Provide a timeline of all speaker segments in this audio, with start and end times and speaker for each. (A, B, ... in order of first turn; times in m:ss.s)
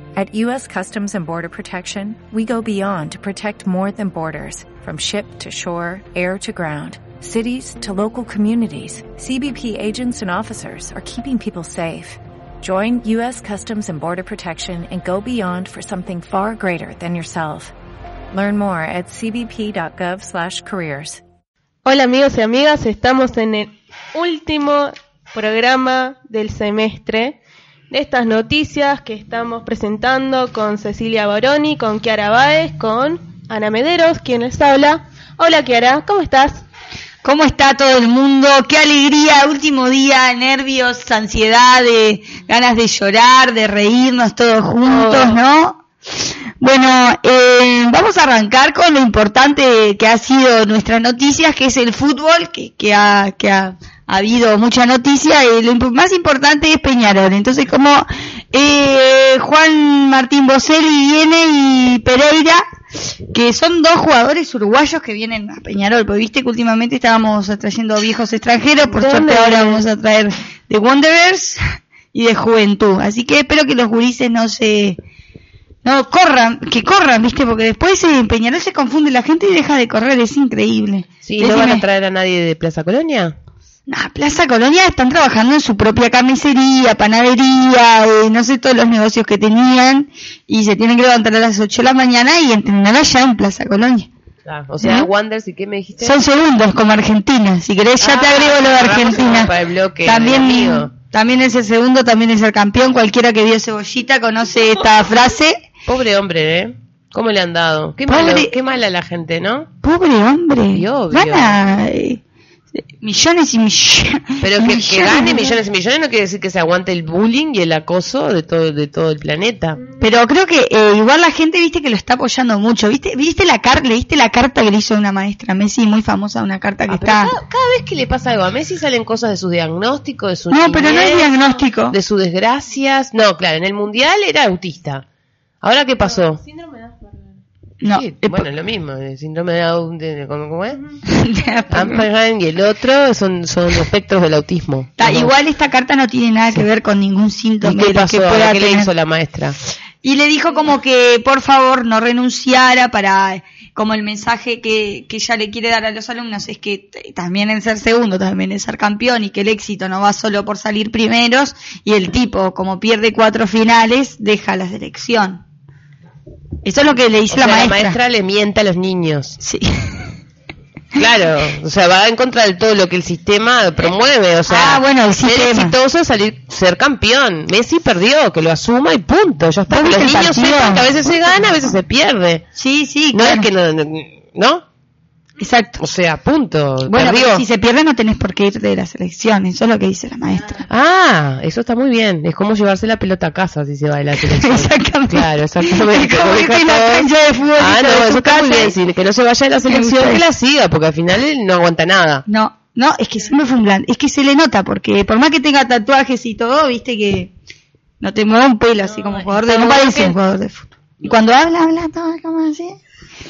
0:00.2-0:17.7 A
0:18.3-0:21.2 A
0:21.8-0:27.4 B
0:27.9-0:36.6 B
0:37.2-0:45.8 C
0:44.8-0:45.4 B
0:46.6-1:02.6 C
1:03.3-1:11.6 C
1:08.8-1:09.8 D
1:12.1-1:15.0 C
1:15.8-1:21.8 C
1:21.2-1:23.3 D
1:23.9-1:34.1 C
1:34.4-1:36.2 D
1:34.8-1:35.1 C
1:36.0-1:45.6 C
1:38.0-1:40.9 D
1:45.8-1:49.7 D
1:48.1-1:48.5 C
1:49.8-1:52.2 C
1:50.7-1:51.6 D
1:53.0-1:55.6 C
1:54.4-1:59.8 D
2:00.0-2:07.3 C
2:06.9-2:15.0 D
2:10.5-2:12.0 C
2:15.6-2:16.4 D
2:16.0-2:17.4 B
2:17.8-2:18.5 C
2:17.9-2:20.8 D
2:21.0-2:22.1 C
2:21.7-2:25.3 D
2:25.0-2:28.9 C
2:27.6-2:29.6 D
2:30.0-2:45.4 C
2:46.6-2:48.0 C
2:47.3-2:49.4 D
2:49.4-2:50.1 C
2:50.9-3:02.4 D
2:54.5-2:55.8 C
2:59.7-3:01.8 C
3:02.6-3:03.5 C
3:03.1-3:04.6 D
3:05.4-3:05.8 C
3:05.8-3:07.4 D
3:06.8-3:10.6 C
3:10.7-3:22.2 D
3:14.2-3:18.8 C
3:19.6-3:20.2 C
3:22.2-3:27.3 C
3:28.0-3:32.8 C
3:29.1-3:30.1 B